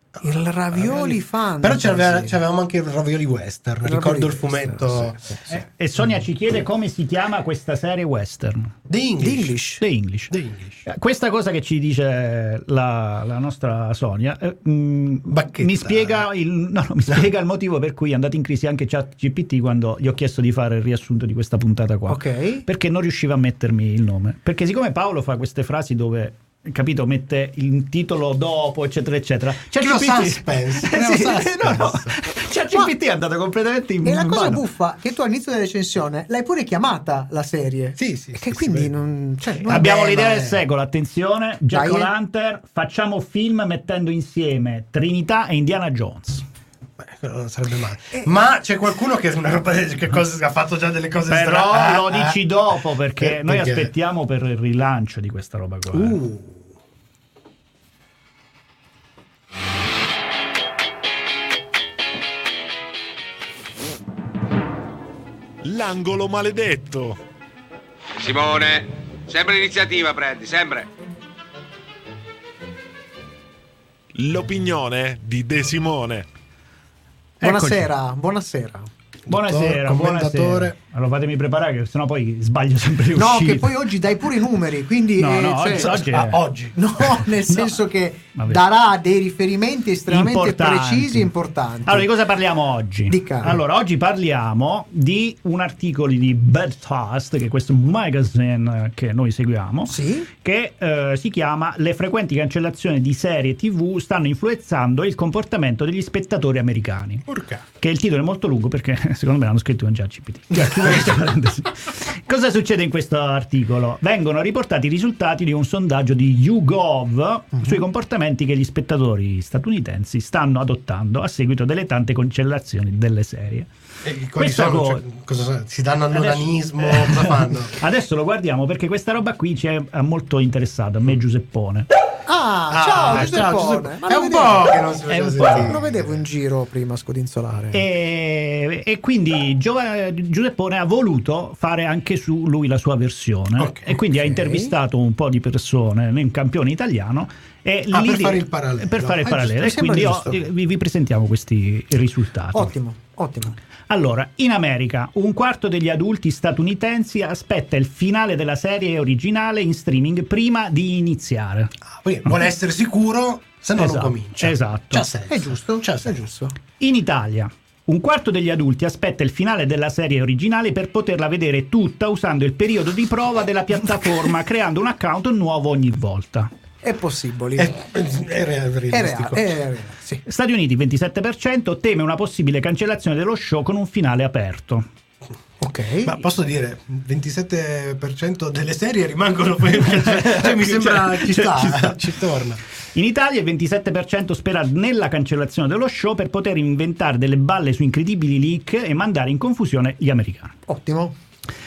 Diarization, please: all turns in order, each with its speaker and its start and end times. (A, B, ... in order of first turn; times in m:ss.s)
0:00.2-0:05.4 A
0:00.2-0:02.4 B
0:03.8-0:05.4 B
0:05.5-0:08.7 C
0:08.9-0:09.6 A
0:09.2-0:09.8 B
0:09.8-0:10.3 C
0:10.3-0:10.9 A
0:10.8-0:34.6 C
0:15.2-0:16.2 A
0:22.1-0:22.6 B
0:29.8-0:32.2 A
0:34.0-0:40.1 B
0:38.0-0:39.0 A
0:39.6-0:40.6 A
0:39.7-0:46.4 C
0:41.7-0:42.1 B
0:47.0-0:52.4 A
0:51.3-0:56.2 C
0:53.2-0:53.9 A
0:55.9-0:56.8 A
1:05.6-1:07.2 D
1:08.2-1:10.9 E
1:14.1-1:16.2 D
1:17.4-1:17.9 C
1:17.4-1:18.9 B
1:19.3-1:20.8 A
1:19.3-1:23.7 C
1:23.1-1:25.9 B
1:25.2-1:26.4 C
1:25.7-1:27.2 A
1:26.8-1:32.1 B
1:30.1-1:31.3 C
1:31.8-1:47.3 C
1:33.1-1:33.6 B
1:39.9-1:40.3 B
1:47.2-1:47.6 A
1:47.8-2:03.7 C
2:04.0-2:07.8 A
2:04.4-2:05.0 C
2:06.1-2:11.9 C
2:12.3-2:17.8 B
2:12.7-2:16.2 A
2:15.1-2:15.7 C
2:17.7-2:32.7 C
2:23.6-2:23.8 A
2:24.0-2:24.7 B
2:27.9-2:30.4 A
2:29.6-2:30.4 B
2:32.5-2:33.6 B
2:33.9-2:41.7 C
2:41.9-2:46.3 A
2:43.8-2:45.0 C
2:45.3-2:46.6 B
2:46.8-2:56.5 C
2:56.8-2:57.7 B
2:57.6-2:59.5 A
2:58.9-3:00.2 B
3:00.2-3:04.8 C
3:05.6-3:06.1 B
3:06.0-3:12.6 A
3:09.9-3:12.1 C
3:12.9-3:20.5 C
3:20.7-3:21.1 B